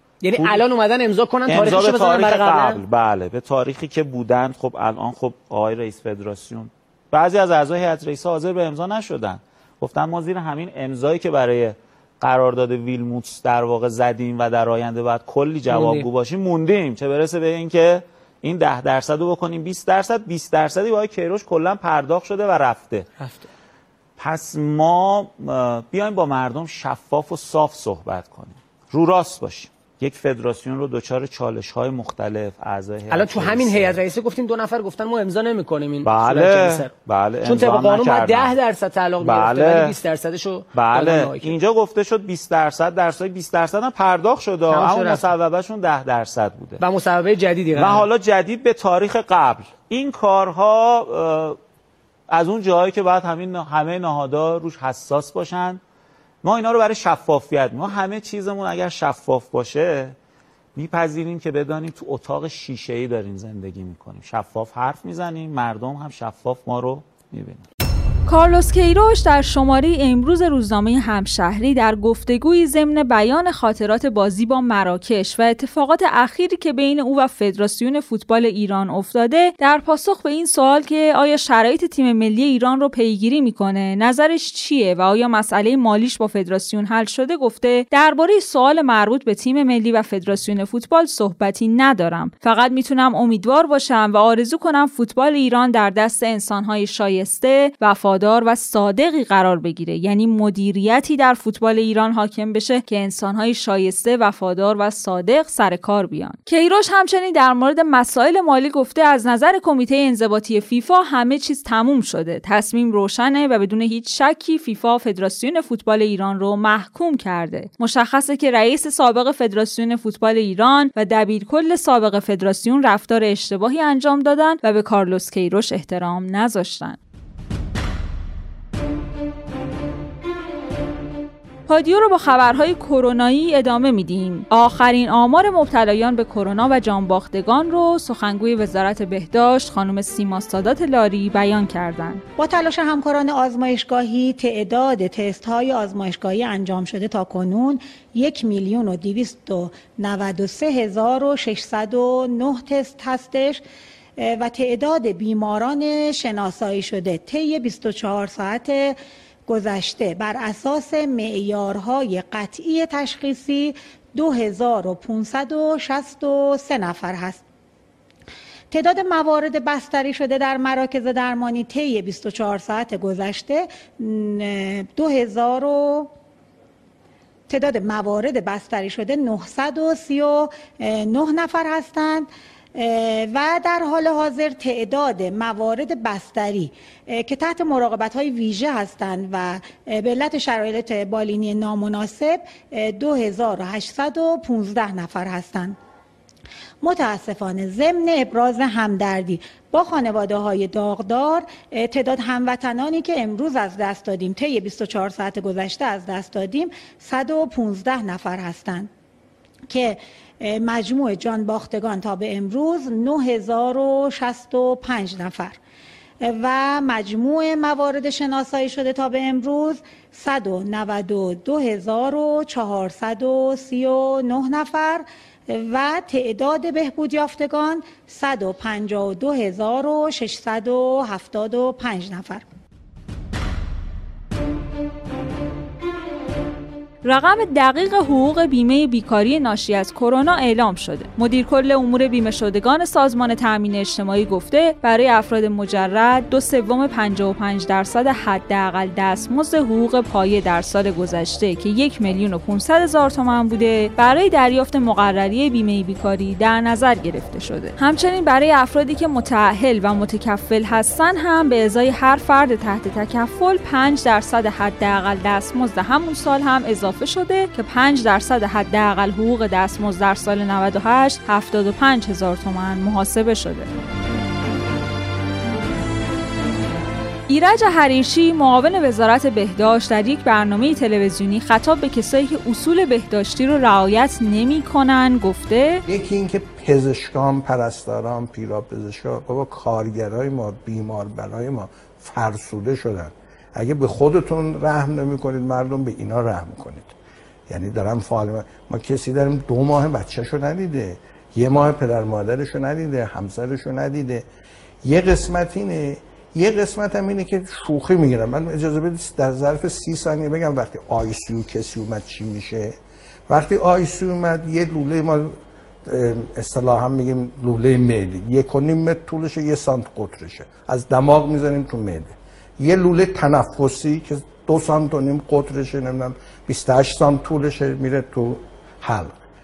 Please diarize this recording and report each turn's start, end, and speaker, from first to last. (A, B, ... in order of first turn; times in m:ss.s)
0:00.2-0:02.8 A
0:01.5-0:23.1 B
0:15.7-0:16.1 A
0:23.2-0:23.4 A
0:24.2-0:34.0 B
0:33.1-0:36.9 A
0:36.0-0:38.6 B
0:37.4-0:41.6 A
0:39.2-0:40.0 B
0:40.7-0:46.8 B
0:44.7-0:45.3 A
0:46.8-0:48.0 A
0:47.8-0:51.6 B
0:52.3-0:55.8 B
0:56.4-1:00.2 B
1:00.8-1:07.6 B
1:08.3-2:07.0 C
2:11.7-2:22.2 C
2:22.4-2:33.6 D
2:34.2-2:47.4 D
2:48.7-2:56.1 D
2:57.5-3:15.8 D
3:16.8-3:28.9 D
3:29.7-3:35.6 D
3:36.2-3:52.4 D
3:57.0-4:33.7 C
4:37.3-4:45.8 C
4:45.9-4:56.9 E
4:57.5-5:04.2 E
5:04.8-5:12.8 E
5:13.3-5:29.1 E